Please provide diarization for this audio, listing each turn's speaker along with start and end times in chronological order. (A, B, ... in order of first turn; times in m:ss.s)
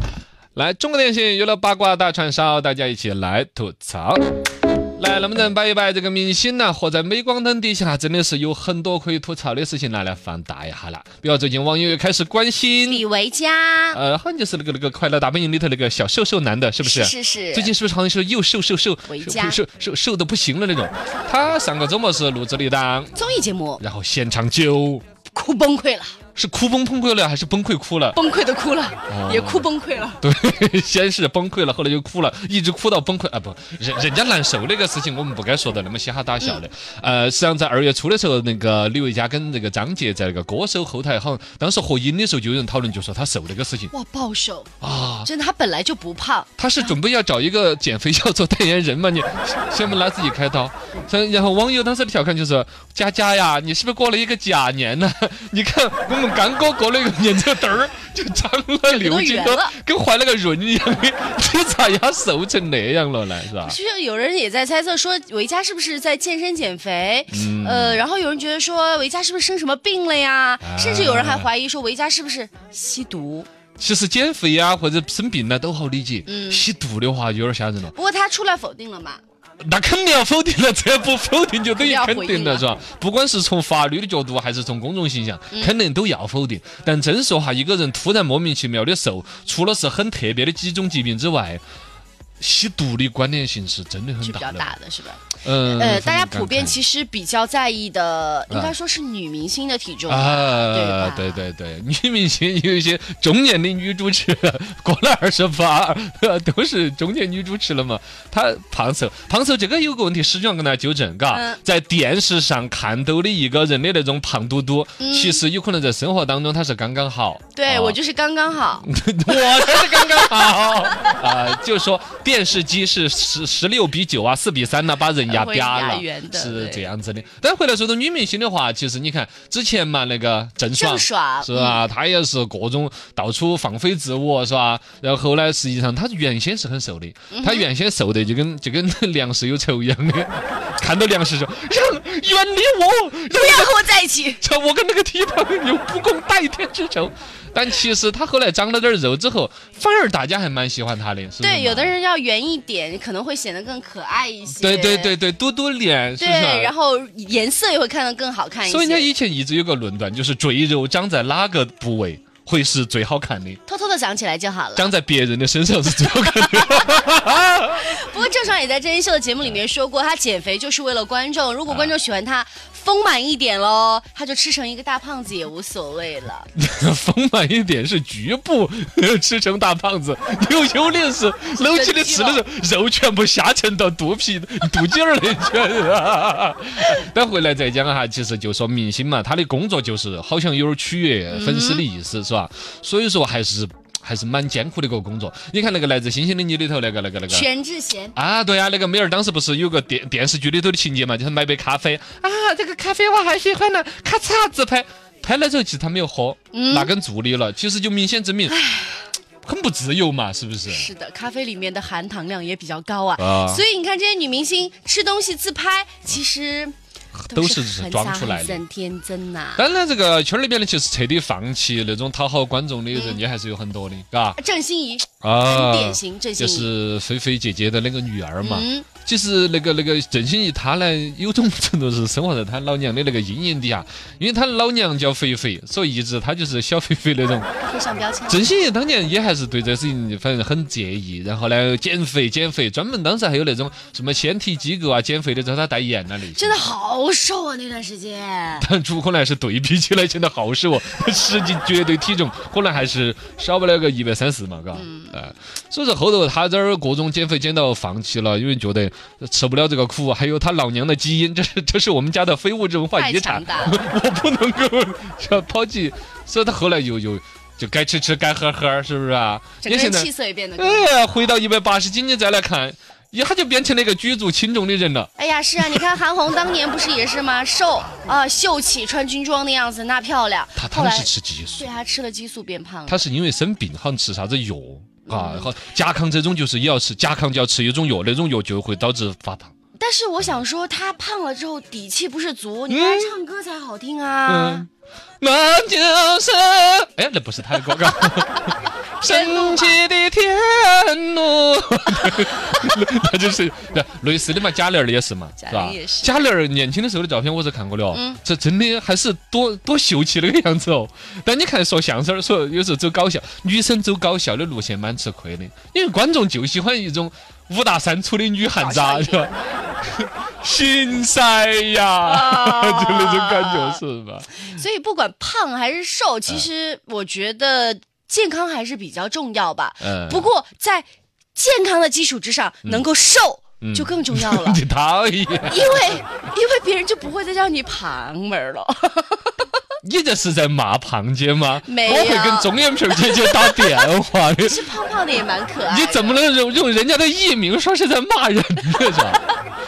0:00.6-0:04.2 A
0:05.0-0:13.0 A
0:12.9-0:14.0 B
0:13.9-0:23.2 A
0:16.8-0:17.7 B
0:19.1-0:19.6 B
0:23.2-0:23.8 B
0:23.8-0:25.0 A
0:25.3-0:26.2 B
0:26.4-0:28.2 A
0:28.1-0:30.2 B
0:29.1-0:29.7 A
0:30.2-0:43.9 A
0:43.9-0:44.7 B
0:44.8-0:45.3 A
0:45.2-0:47.0 B
0:46.6-1:03.8 A
0:58.9-0:59.7 B
1:03.6-1:13.5 B
1:07.3-1:08.0 A
1:10.6-1:11.5 A
1:13.8-1:18.0 A
1:16.3-1:16.6 B
1:17.9-1:19.2 B
1:19.6-1:31.6 A
1:21.8-1:22.7 B
1:32.4-1:34.8 A
1:34.2-1:41.5 B
1:35.4-1:36.8 A
1:38.5-1:38.8 A
1:40.1-1:58.0 A
1:51.3-1:51.6 B
1:55.0-1:55.4 B
1:57.5-2:01.2 B
1:58.8-2:23.8 A
2:05.2-2:06.9 B
2:10.7-2:11.8 B
2:17.3-2:17.7 B
2:23.3-2:24.4 B
2:24.4-2:32.0 A
2:31.4-2:35.1 B
2:34.6-2:36.7 A
2:36.2-2:39.1 B
2:38.6-2:43.6 A
2:43.7-2:44.9 B
2:44.8-2:47.9 A
2:46.3-2:56.5 B
2:51.7-2:51.9 A
2:56.6-3:17.5 A
3:01.5-3:02.4 B
3:11.3-3:11.8 B
3:17.3-3:18.2 B
3:18.2-3:28.6 A
3:26.5-3:26.9 B
3:28.5-3:29.1 B
3:29.4-3:30.9 A
3:30.7-3:36.8 B
3:33.2-3:33.6 A
3:37.2-3:38.6 A
3:37.3-3:39.7 B
3:39.6-3:44.4 A
3:42.9-3:43.2 B
3:44.4-3:46.7 B
3:45.2-3:57.5 A
3:48.4-3:48.9 B
3:57.7-3:58.5 B
3:58.3-4:06.7 A
4:06.4-4:08.7 B
4:08.6-4:35.8 A
4:14.7-4:15.2 B
4:23.0-4:23.8 B
4:29.6-4:31.1 B
4:35.2-4:43.0 B
4:40.6-4:41.7 A
4:42.9-4:49.5 A
4:45.1-4:45.5 B
4:49.8-4:54.6 B
4:52.7-4:53.2 A
4:54.3-4:54.7 A
4:55.2-5:24.5 A
4:59.0-4:59.8 B
5:02.0-5:02.6 B
5:05.4-5:06.2 B
5:07.9-5:08.2 B
5:18.6-5:19.3 B
5:22.0-5:23.8 B
5:24.4-5:34.6 B
5:29.8-5:30.3 A
5:33.6-5:35.9 A
5:35.4-5:39.5 B
5:39.8-5:44.7 A
5:41.6-5:46.2 B
5:45.6-5:49.3 A